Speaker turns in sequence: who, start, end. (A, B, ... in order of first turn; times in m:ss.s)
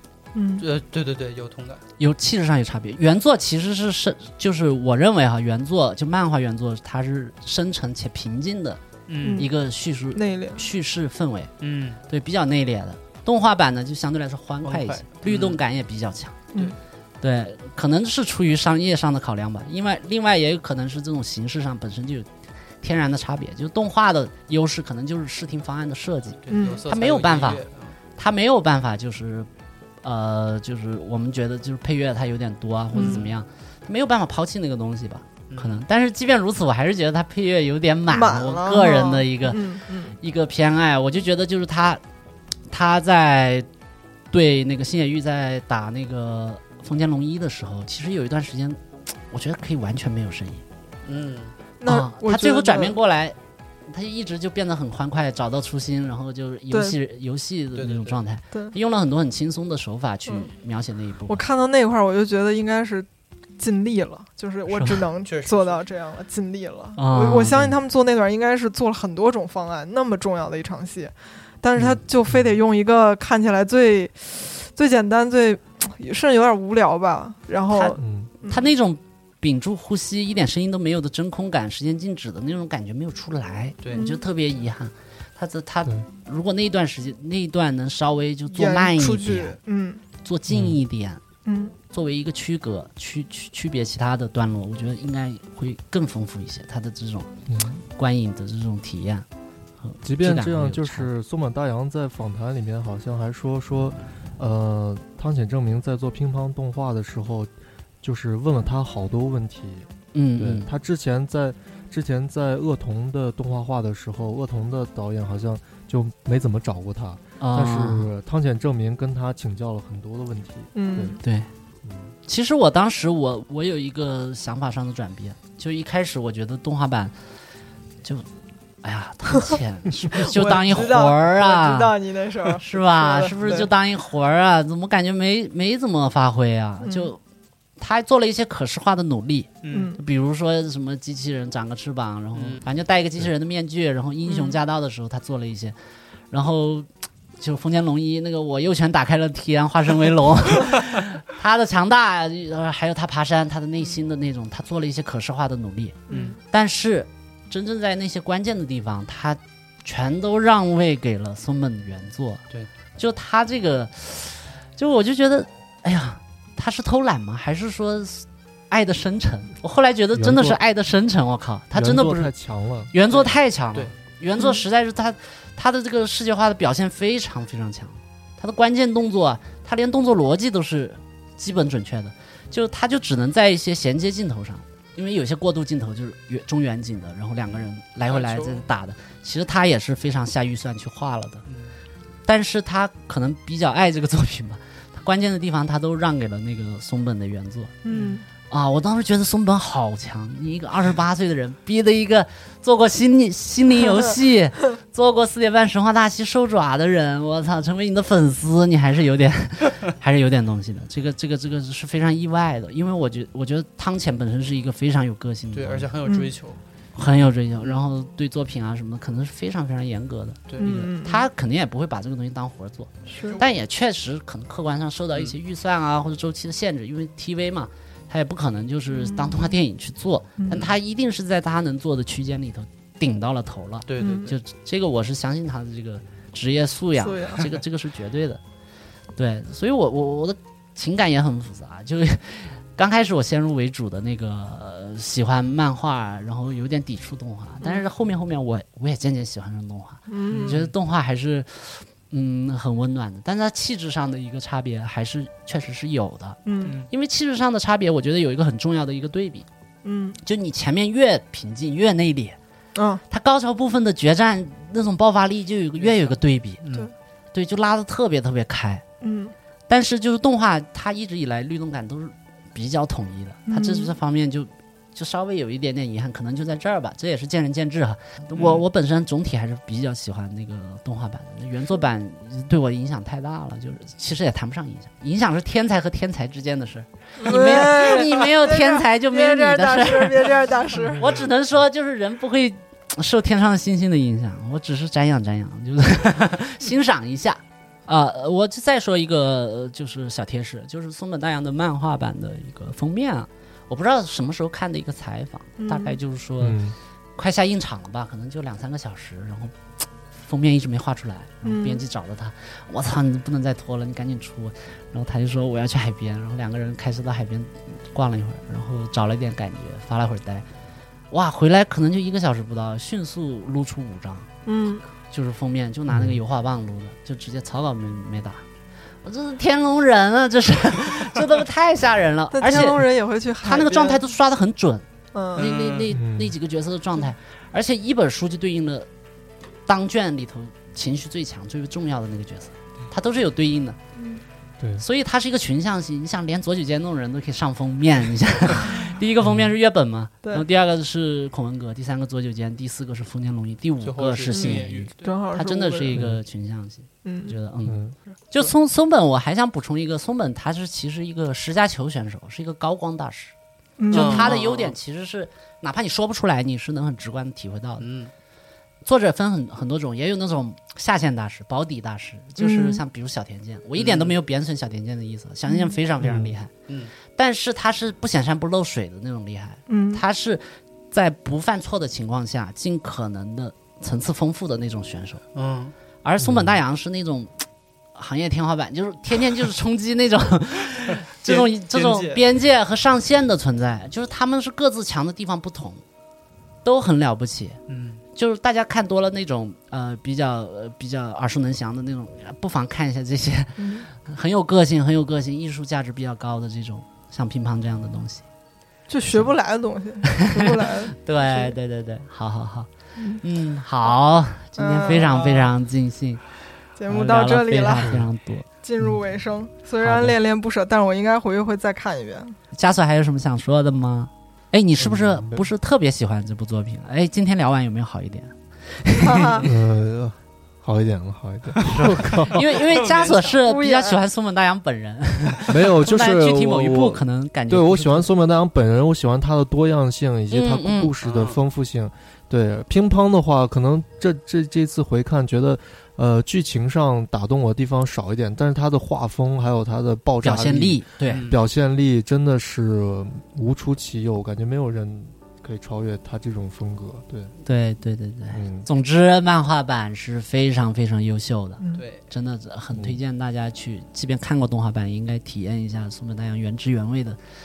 0:00.3-0:00.6 A
0:00.6-0:01.8 B
0:02.0-0:08.8 C
0:09.1-0:09.5 B
0:09.2-0:09.5 A
0:09.4-0:11.5 C
0:10.1-0:10.6 A
0:11.6-0:12.0 B
0:12.1-0:16.4 C
0:14.6-0:15.6 B
0:17.2-0:22.3 C
0:22.8-0:27.6 C
0:26.4-0:28.0 B
0:26.5-0:26.8 A
0:28.2-0:29.5 C
0:30.0-0:39.6 C
0:32.9-0:33.2 A
0:32.9-0:33.3 B
0:35.5-0:35.8 B
0:38.1-0:40.2 A
0:40.2-0:42.0 C
0:42.7-0:43.7 C
0:44.3-0:50.6 C
0:51.0-0:51.5 B
0:51.8-0:53.0 A
0:51.8-0:53.4 C
0:53.9-1:01.4 C
0:56.7-0:57.0 A
0:57.8-0:58.2 B
1:01.3-1:03.1 A
1:03.6-1:18.7 A
1:04.7-1:05.0 C
1:05.2-1:05.8 B
1:07.0-1:07.7 C
1:17.7-1:29.6 C
1:18.0-1:18.3 D
1:23.9-1:24.2 A
1:28.5-1:30.0 A
1:30.2-1:31.2 C
1:30.5-1:30.8 D
1:31.4-1:31.7 A
1:31.9-1:37.3 C
1:37.5-1:37.8 D
1:38.0-1:39.2 C
1:39.8-1:41.1 C
1:40.0-1:47.5 D
1:48.0-2:01.2 D
1:50.1-1:50.7 C
1:57.4-1:58.1 C
2:00.7-2:01.2 A
2:01.2-2:01.5 C
2:01.8-2:02.1 D
2:02.2-2:07.1 C
2:08.8-2:12.0 C
2:10.1-2:13.7 A
2:12.6-2:17.2 C
2:16.8-2:17.1 A
2:17.8-2:25.7 C
2:19.6-2:19.9 B
2:19.7-2:20.0 A
2:22.3-2:22.6 B
2:24.2-2:24.6 A
2:26.3-2:26.9 C
2:27.4-2:42.4 C
2:36.1-2:36.4 A
2:36.1-2:36.4 B
2:43.0-2:52.3 C
2:50.1-2:50.6 D
2:51.7-2:52.9 D
2:52.9-3:11.4 C
2:53.1-2:53.9 B
3:08.1-3:08.6 B
3:11.4-3:11.7 B
3:12.2-3:17.7 C
3:17.8-3:18.2 A
3:17.9-3:18.2 B
3:18.5-3:35.9 C
3:35.5-3:36.6 B
3:36.0-3:36.3 A
3:37.0-3:58.4 C
3:40.5-3:40.7 B
3:40.6-3:41.3 A
3:43.1-3:43.4 B
3:43.1-3:43.4 A
3:48.9-3:49.5 A
3:50.4-3:50.6 A
3:53.9-3:54.3 B
3:54.0-3:54.3 A
3:57.0-3:57.6 A
3:59.2-4:19.5 C
4:10.1-4:10.6 A
4:10.3-4:10.7 B
4:16.4-4:16.8 A
4:16.6-4:16.9 B
4:19.8-4:20.2 A
4:20.2-4:22.4 C
4:22.8-4:23.0 A
4:23.1-4:26.6 C
4:25.8-4:26.9 B
4:27.3-4:28.8 C
4:29.0-4:29.3 A
4:29.7-5:06.6 C
4:33.5-4:33.9 A
4:38.3-4:38.6 B
4:47.2-4:51.0 A
5:05.6-5:06.0 A
5:06.4-5:06.8 D
5:07.2-5:09.5 C
5:10.1-5:20.4 C
5:11.4-5:11.8 A
5:21.1-5:24.3 C
5:24.4-5:24.8 A
5:25.1-5:28.4 C
5:25.9-5:26.2 D
5:29.0-5:32.9 C
5:32.3-5:34.0 A
5:33.4-5:38.9 C
5:35.1-5:35.4 A
5:35.3-5:35.8 B
5:35.9-5:36.3 D
5:39.7-5:43.8 C
5:44.0-5:44.2 A
5:44.6-5:44.8 D
5:44.8-6:03.3 C
5:49.2-5:49.5 D
5:53.8-5:55.2 B
5:54.3-5:56.0 A
5:55.9-5:56.2 D
5:57.0-5:57.4 A
5:57.6-5:57.9 D
6:03.8-6:04.3 A
6:03.9-6:07.9 C
6:03.9-6:04.8 B
6:07.8-6:08.1 B
6:08.8-6:16.5 C
6:12.4-6:12.8 A
6:13.8-6:14.1 B
6:15.5-6:15.8 A
6:16.0-6:16.3 D
6:16.7-6:16.9 B
6:17.1-6:25.2 C
6:19.7-6:20.0 A
6:25.3-6:25.7 B
6:26.0-6:27.4 C
6:26.2-6:26.5 D
6:27.9-6:35.8 C
6:31.1-6:32.2 B
6:36.6-6:37.6 C
6:37.7-6:38.0 B
6:38.1-6:48.2 C
6:43.6-6:43.9 A
6:48.9-6:51.5 A
6:49.1-6:49.3 C
6:50.1-6:52.7 C
6:53.0-6:53.2 A
6:53.2-6:56.2 C
6:54.6-6:55.5 A
6:56.8-6:58.0 A
6:56.9-6:58.5 C
6:57.8-6:58.0 D
6:58.6-7:02.4 A
6:59.8-7:00.2 C
7:02.5-7:09.4 C
7:04.8-7:05.4 D
7:09.0-7:09.4 A
7:09.4-7:12.4 D
7:11.6-7:13.4 B
7:12.3-7:18.1 C
7:13.4-7:14.0 A
7:15.5-7:37.3 D
7:20.3-7:20.9 C
7:21.0-7:21.4 B
7:30.2-7:31.2 C
7:31.1-7:31.4 B
7:37.4-7:47.2 C
7:38.3-7:38.7 D
7:41.6-7:41.8 A
7:41.7-7:42.0 B
7:42.7-7:43.0 D